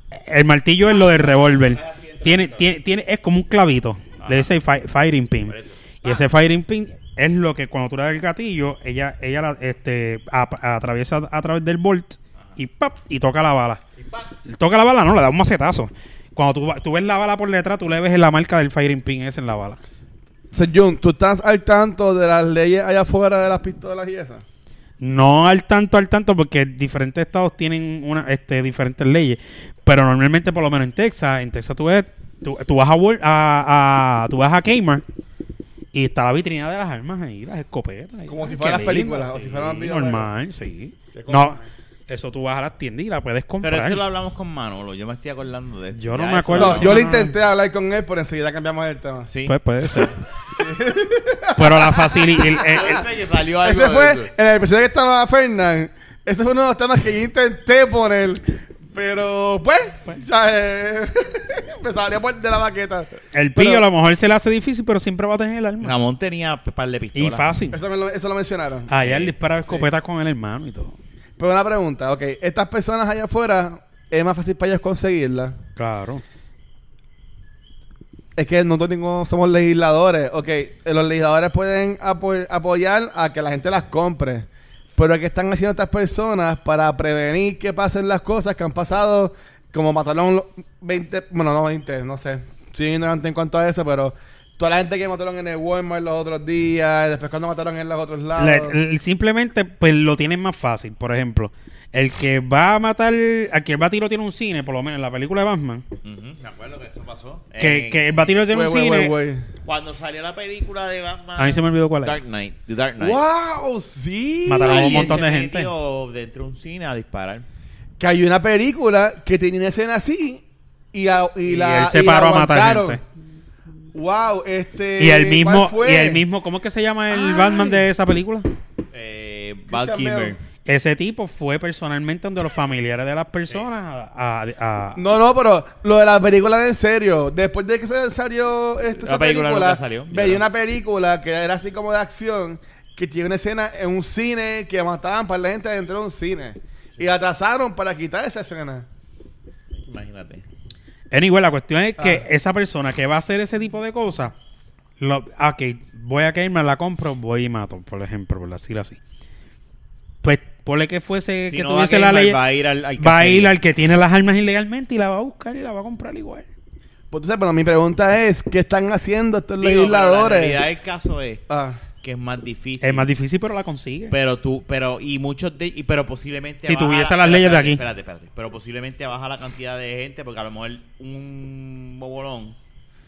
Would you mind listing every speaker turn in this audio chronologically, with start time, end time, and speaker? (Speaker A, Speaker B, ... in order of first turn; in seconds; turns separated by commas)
Speaker A: 0.3-13.8, Speaker B: 0.9-2.7, Speaker B: 4.2-4.5, Speaker B: 5.5-6.2, Speaker B: 14.0-14.3, Speaker A: 14.4-19.8, Speaker C: 20.5-24.4, Speaker A: 25.0-35.0, Speaker A: 35.9-44.0, Speaker C: 38.3-40.3, Speaker C: 41.1-41.6, Speaker B: 43.6-47.0, Speaker A: 46.0-47.3, Speaker C: 46.5-49.3, Speaker B: 49.3-49.5, Speaker A: 49.5-50.2, Speaker C: 50.5-52.9, Speaker A: 51.5-53.0, Speaker B: 52.6-54.3, Speaker C: 53.6-63.8, Speaker A: 63.3-66.0, Speaker B: 65.8-67.5, Speaker A: 67.1-67.8, Speaker C: 67.7-68.9, Speaker A: 68.9-70.9, Speaker B: 69.0-69.3, Speaker C: 71.4-75.6, Speaker A: 75.8-76.2, Speaker C: 78.3-98.8, Speaker A: 98.4-105.8, Speaker B: 106.0-108.2, Speaker A: 107.6-109.1, Speaker C: 108.5-109.5, Speaker B: 109.6-113.2, Speaker A: 111.4-112.2, Speaker C: 113.0-115.2, Speaker A: 114.5-115.7, Speaker B: 114.6-117.4, Speaker C: 118.0-123.0, Speaker A: 121.5-123.0, Speaker C: 123.9-126.2, Speaker A: 125.0-128.5, Speaker C: 127.1-127.8, Speaker B: 128.9-130.4, Speaker C: 129.7-130.3, Speaker A: 130.6-135.0, Speaker C: 134.9-148.8, Speaker B: 139.0-140.4, Speaker B: 149.8-150.4, Speaker A: 151.1-154.3, Speaker C: 152.0-152.2, Speaker A: 155.0-159.0, Speaker A: 160.2-162.4, Speaker B: 161.5-163.5, Speaker A: 163.0-166.4, Speaker C: 167.1-170.6, Speaker B: 169.6-171.4, Speaker C: 171.5-171.8, Speaker B: 172.0-173.1, Speaker A: 172.8-174.1, Speaker B: 174.1-182.6, Speaker A: 176.6-177.8